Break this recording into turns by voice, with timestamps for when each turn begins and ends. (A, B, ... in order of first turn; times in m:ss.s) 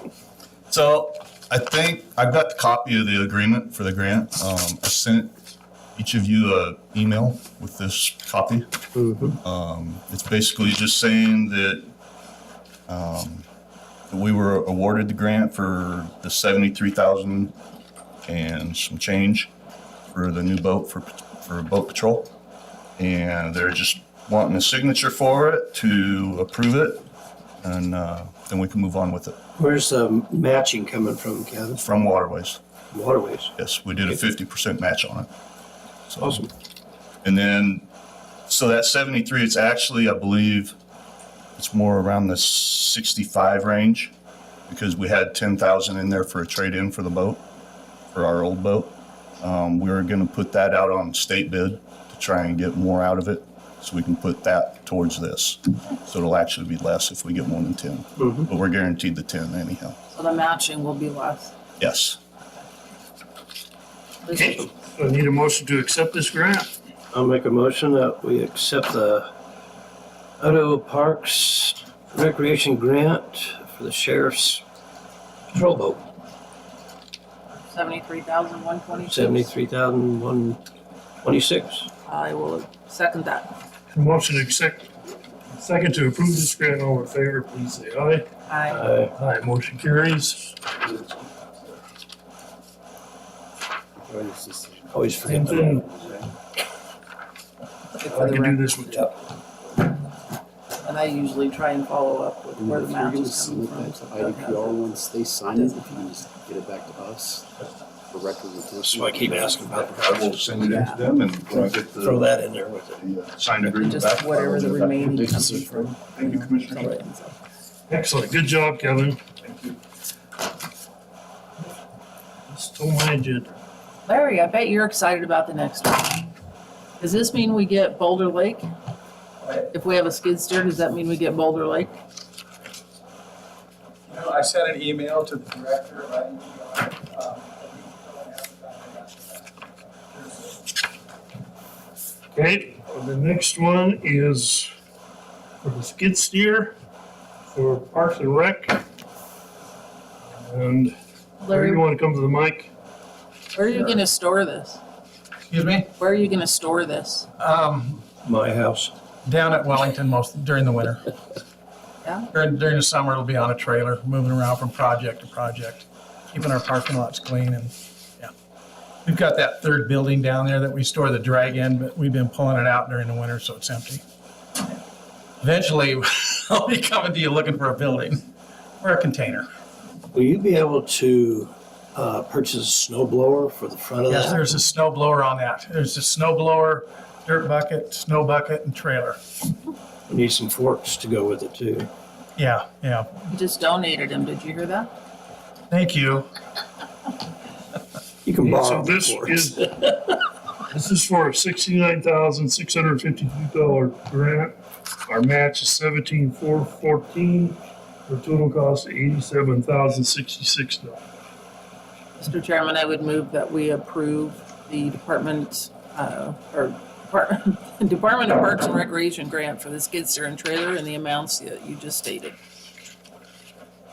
0:00.7-0:05.3 A
0:06.0-0:08.7 A
0:09.0-0:09.4 B
0:09.4-0:11.9 A
0:12.9-0:13.5 A
0:14.1-0:17.6 A
0:18.3-0:19.5 A
0:20.1-0:22.3 A
0:23.0-0:27.1 A
0:27.6-0:29.4 A
0:29.6-0:31.8 B
0:31.8-0:32.6 A
0:32.9-0:33.5 B
0:33.6-0:35.3 A
0:36.1-0:36.4 A
0:36.2-0:36.5 B
0:37.2-0:37.9 A
0:38.5-0:40.8 A
0:41.6-0:44.1 A
0:44.7-0:47.4 A
0:48.1-1:00.0 A
0:58.2-0:58.5 B
1:00.1-1:01.6 C
1:01.8-1:02.2 A
1:04.2-1:04.7 C
1:04.3-1:06.7 D
1:07.1-1:09.3 B
1:10.4-1:14.6 B
1:15.5-1:16.0 B
1:17.7-1:19.5 C
1:19.0-1:20.6 B
1:21.2-1:21.9 B
1:22.1-1:23.5 C
1:23.9-1:25.0 D
1:25.5-1:28.3 D
1:28.5-1:28.8 C
1:28.7-1:29.1 B
1:29.2-1:30.7 D
1:30.9-1:31.3 A
1:34.0-1:36.3 E
1:34.9-1:35.8 B
1:35.3-1:35.9 D
1:38.0-1:38.7 C
1:38.0-1:39.2 D
1:40.8-1:45.0 C
1:42.6-1:50.5 E
1:45.5-1:46.2 C
1:48.8-1:50.3 B
1:49.6-1:57.0 A
1:50.6-1:51.0 C
1:52.0-1:53.0 B
1:53.7-1:57.4 C
1:55.0-1:55.9 E
1:57.9-1:59.2 D
1:59.4-1:59.8 A
2:02.5-2:03.5 D
2:04.1-2:06.3 C
2:07.0-2:08.7 C
2:09.7-2:12.0 C
2:14.1-2:19.5 F
2:20.1-2:20.6 F
2:22.3-2:24.7 D
2:25.6-2:26.8 D
2:27.5-2:28.8 D
2:30.3-2:31.0 D
2:31.4-2:31.8 C
2:31.5-2:32.7 D
2:33.5-2:34.8 C
2:35.5-2:35.9 F
2:36.0-2:37.3 C
2:37.4-2:38.1 F
2:38.2-2:38.9 B
2:39.2-2:41.1 F
2:42.0-2:42.3 C
2:42.3-2:48.3 F
2:49.0-2:54.0 F
2:55.4-2:58.2 F
2:58.8-2:59.5 F
3:00.1-3:04.5 B
3:04.1-3:09.2 F
3:10.1-3:11.9 B
3:12.4-3:13.2 F
3:13.3-3:14.9 C
3:15.7-3:16.3 F
3:18.3-3:20.1 B
3:18.4-3:19.6 D
3:20.7-3:24.6 D
3:25.1-3:31.0 D
3:32.2-3:42.4 C